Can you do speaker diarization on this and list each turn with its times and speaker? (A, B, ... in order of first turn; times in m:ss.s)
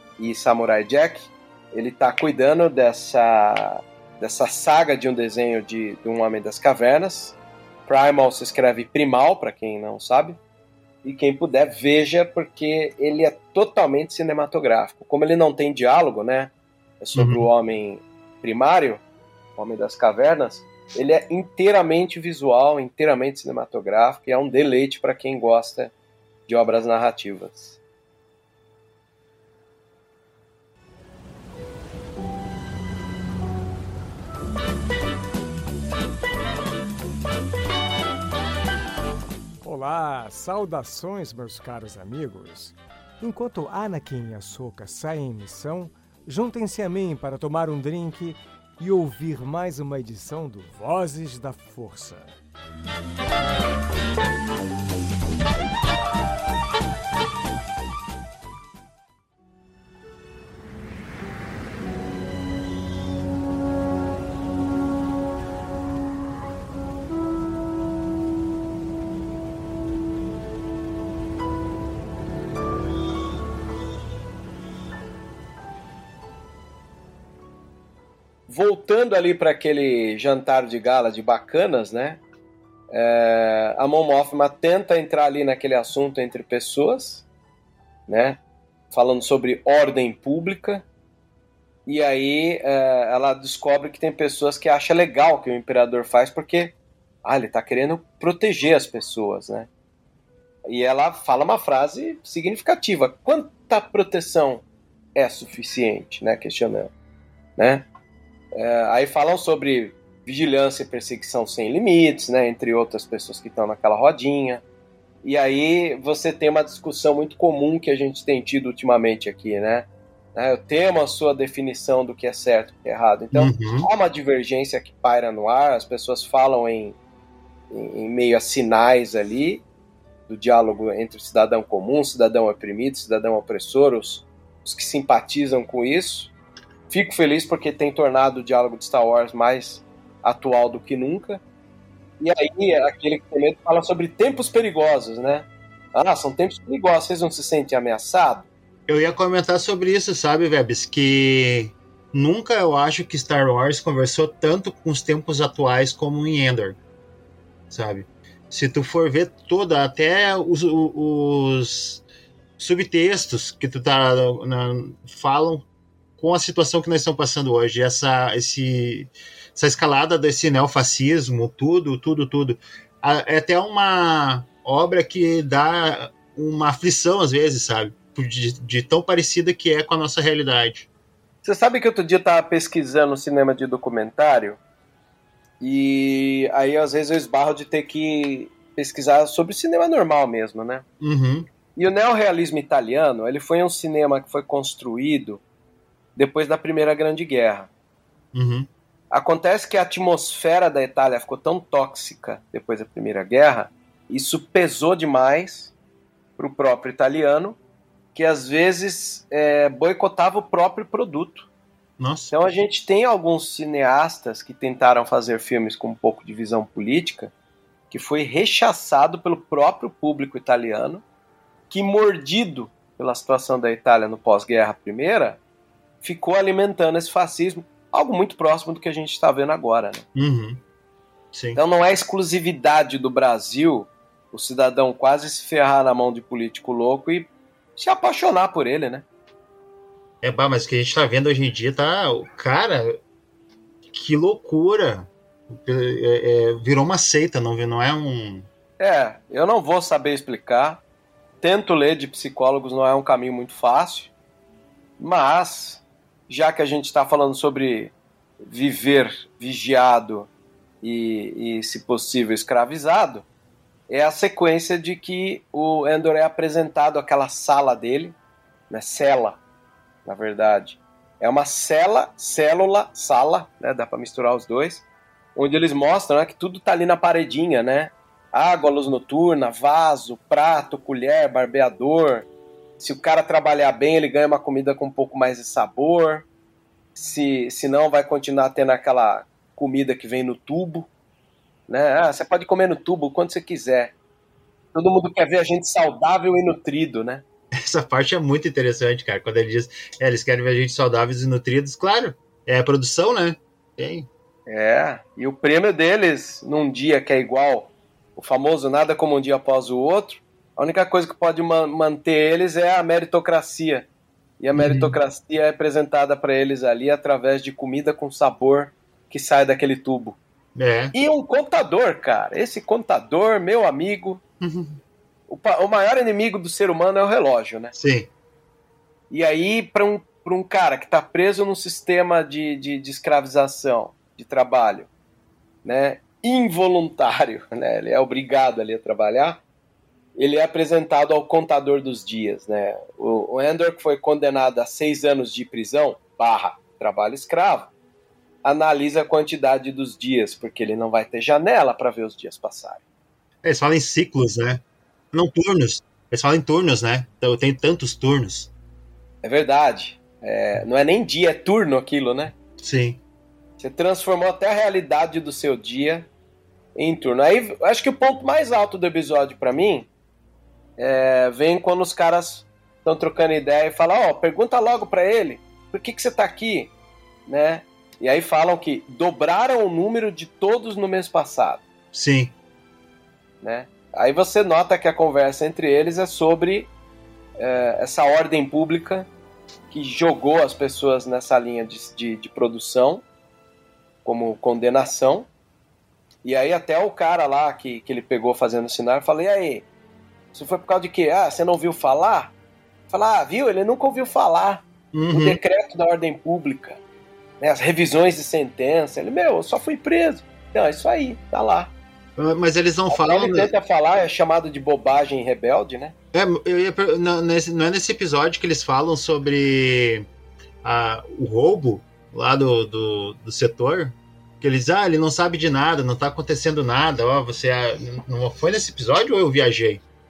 0:00.2-0:10.4 A
0:11.0-0:19.0 A
0:17.1-0:17.5 B
0:19.6-0:25.9 A
0:26.5-0:27.8 A
0:39.6-0:52.3 C
1:18.5-1:22.2 A
1:22.9-1:27.2 A
1:28.1-1:28.4 A
1:28.9-1:30.8 A
1:31.8-1:39.7 A
1:40.7-1:44.6 A
1:45.1-1:46.9 A
1:47.6-1:47.8 A
1:48.5-1:54.6 A
1:55.2-2:07.0 A
2:03.3-2:03.9 B
2:07.7-2:09.6 A
2:10.3-2:16.3 A
2:16.9-2:21.4 A
2:22.2-2:28.5 A
2:28.9-2:36.8 B
2:37.7-2:42.0 B
2:42.6-2:45.6 B
2:46.2-3:00.9 B
3:01.4-3:04.6 A
3:05.6-3:10.8 A
3:11.0-3:11.5 B
3:11.8-3:15.4 A
3:16.2-3:17.7 A
3:18.3-3:18.7 B
3:19.1-3:25.7 A
3:26.4-3:27.6 A
3:28.1-3:31.5 A
3:32.0-3:32.3 B
3:32.3-3:37.3 A
3:37.9-3:41.0 A
3:41.7-3:45.4 A
3:46.0-3:50.0 A
3:50.1-3:50.6 B
3:51.3-3:51.6 B
3:51.5-3:59.0 A
4:00.2-4:03.0 B
4:03.9-4:08.5 B
4:08.8-4:10.8 A
4:11.4-4:14.1 A
4:15.0-4:17.9 A
4:18.4-4:20.3 A
4:20.8-4:23.2 A
4:23.9-4:28.2 A
4:28.7-4:29.4 A
4:30.0-4:34.8 A
4:35.3-4:42.3 A
4:42.8-4:46.2 A
4:46.9-4:50.9 A
4:51.7-4:53.9 A
4:54.7-4:57.2 A
4:57.6-5:04.1 B
5:04.5-5:13.9 A
5:14.4-5:20.2 A
5:14.5-5:15.0 B
5:20.6-5:20.9 B
5:20.9-5:24.2 A
5:24.4-5:24.8 B
5:25.3-5:27.7 A
5:27.7-5:28.1 B
5:29.1-5:34.9 A
5:35.6-5:39.4 A
5:40.2-5:47.7 A
5:48.4-5:52.8 A
5:53.4-5:54.6 B
5:55.1-5:58.5 B
5:59.2-6:02.3 A
6:02.6-6:03.0 B
6:03.6-6:06.1 A
6:06.7-6:09.9 A
6:10.8-6:16.7 A
6:17.3-6:21.6 A
6:21.9-6:22.3 B
6:23.4-6:26.7 A
6:27.4-6:29.1 A
6:29.7-6:33.0 A
6:34.0-6:35.3 A
6:36.2-6:39.6 A
6:40.3-6:42.3 A
6:42.9-6:46.8 A
6:44.9-6:45.4 B
6:47.4-6:51.7 A
6:52.2-6:53.5 B
6:52.9-6:55.9 A
6:56.1-7:00.0 B
7:00.6-7:09.8 B